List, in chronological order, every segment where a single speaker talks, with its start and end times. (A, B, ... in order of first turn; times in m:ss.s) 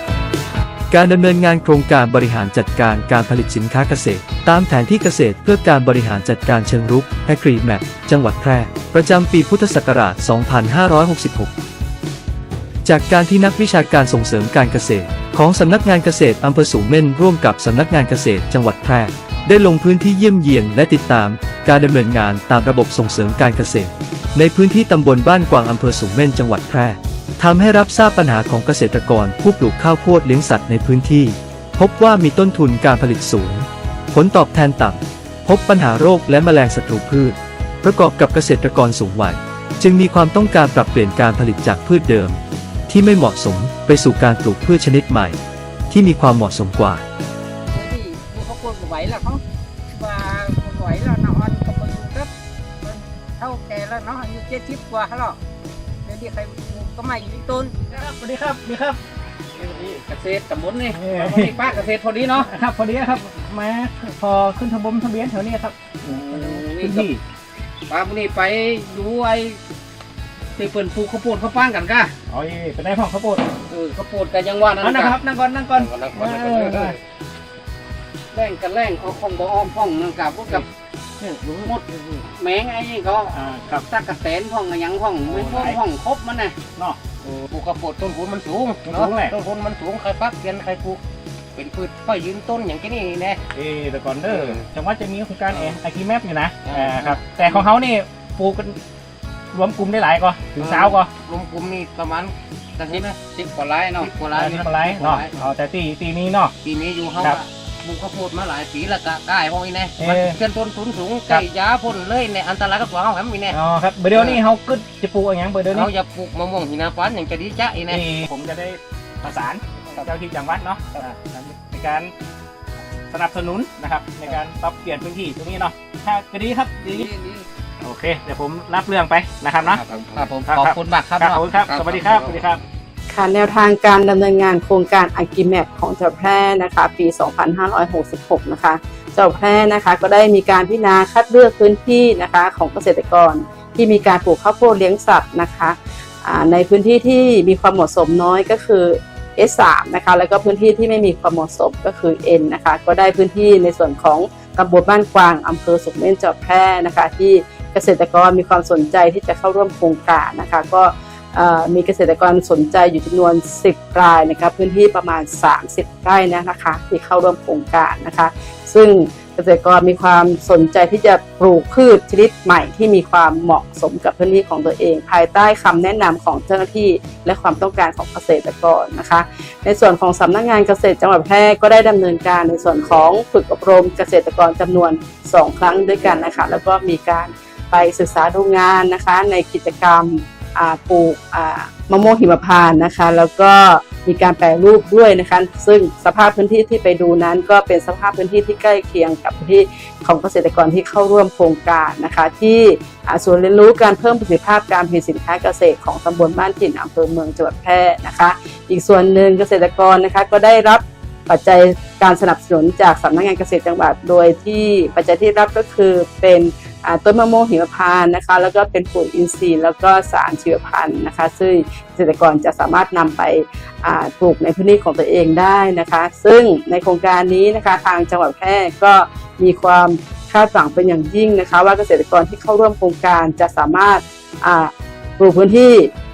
0:00.9-0:11.5 A
0:12.8-0:45.4 A
0:45.9-0:47.0 A
0:47.7-0:52.3 B
0:52.8-0:55.4 B
0:56.0-0:57.8 B
0:57.9-0:59.0 C
0:59.6-1:00.0 C
0:59.8-1:02.5 B
1:00.9-1:01.6 C
1:02.4-1:07.2 C
1:06.2-1:07.1 B
1:07.9-1:09.6 B
1:10.6-1:12.1 B
1:12.3-1:13.4 C
1:13.7-1:15.2 B
1:14.8-1:17.0 C
1:15.7-1:17.0 D
1:18.3-1:20.6 B
1:21.2-1:22.2 D
1:21.6-1:26.6 B
1:23.3-1:23.8 C
1:25.2-1:25.8 C
1:27.2-1:31.0 D
1:28.8-1:29.3 C
1:31.5-1:33.4 D
1:33.5-1:38.8 C
1:34.3-1:34.6 D
1:36.6-1:37.6 D
1:39.5-1:41.1 C
1:40.6-1:43.2 D
1:42.9-1:44.1 B
1:44.0-1:45.4 D
1:44.3-1:46.5 C
1:46.6-1:53.6 D
1:50.0-1:50.4 C
1:53.5-1:55.9 C
1:54.1-1:54.4 D
1:55.7-1:58.0 D
1:57.9-2:02.1 C
2:03.1-2:07.1 C
2:06.9-2:07.5 B
2:07.8-2:09.8 C
2:09.6-2:10.4 D
2:10.2-2:11.3 B
2:10.5-2:12.6 C
2:11.2-2:12.4 D
2:13.1-3:55.9 E